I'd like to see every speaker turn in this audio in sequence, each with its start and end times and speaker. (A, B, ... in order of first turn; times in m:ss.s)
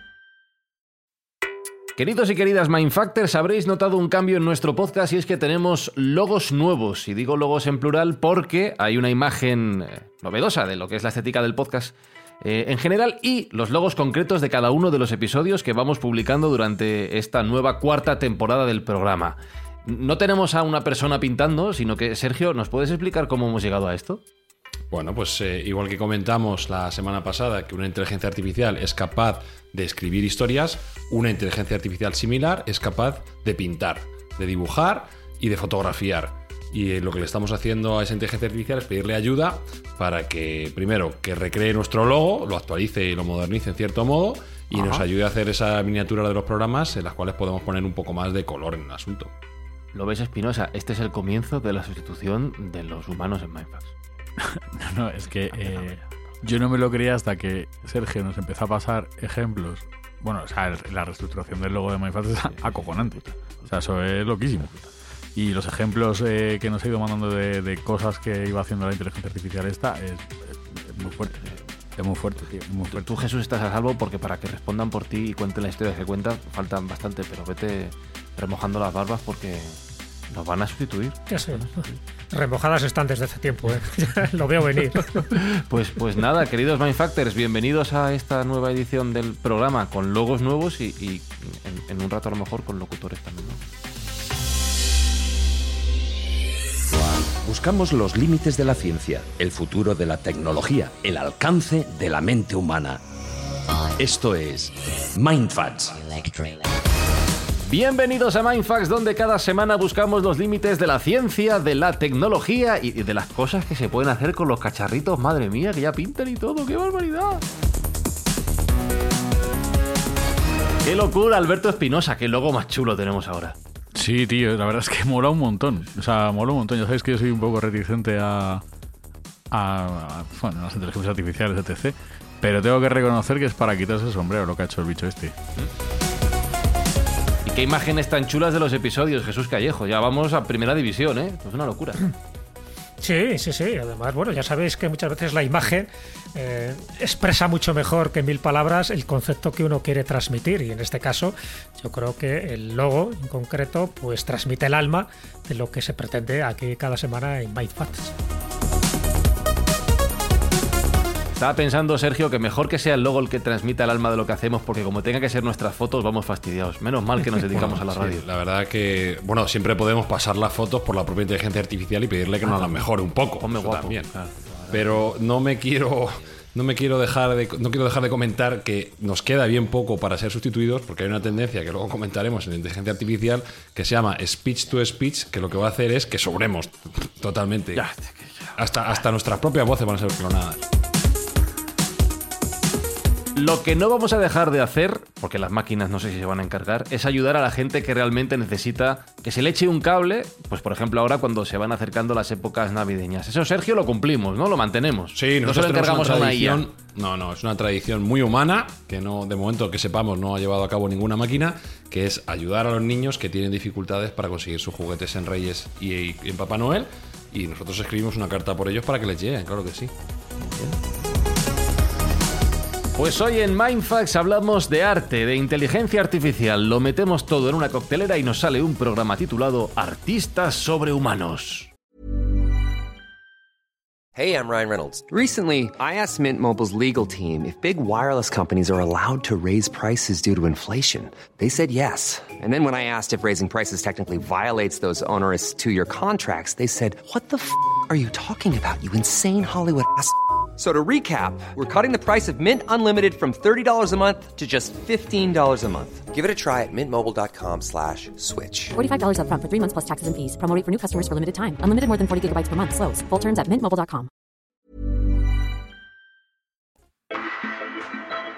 0:02.0-0:24.2 A
0:24.9-0:49.3 B
0:44.8-0:45.0 A
0:49.9-0:53.9 A
0:54.4-1:13.2 C
0:55.5-0:56.0 A
1:02.6-1:03.7 A
1:12.9-1:19.8 A
1:20.3-1:22.0 A
1:21.3-1:25.3 D
1:25.3-1:33.6 A
1:36.9-1:43.0 E
1:44.0-1:46.6 E
1:47.7-1:57.4 A
2:00.8-2:03.6 A
2:04.0-2:08.6 C
2:09.5-2:15.4 C
2:17.5-2:22.0 A
2:23.0-2:38.1 D
2:41.4-2:48.2 A
2:47.5-2:54.1 B
2:52.4-2:52.8 A
2:53.4-2:55.0 A
2:54.7-3:07.8 B
3:07.8-3:08.6 A
3:08.6-3:10.6 B
3:13.4-3:26.6 A
3:25.2-3:39.9 B
3:40.4-3:40.8 A
3:43.0-3:51.7 A
3:54.2-4:18.7 F
4:18.8-4:24.1 G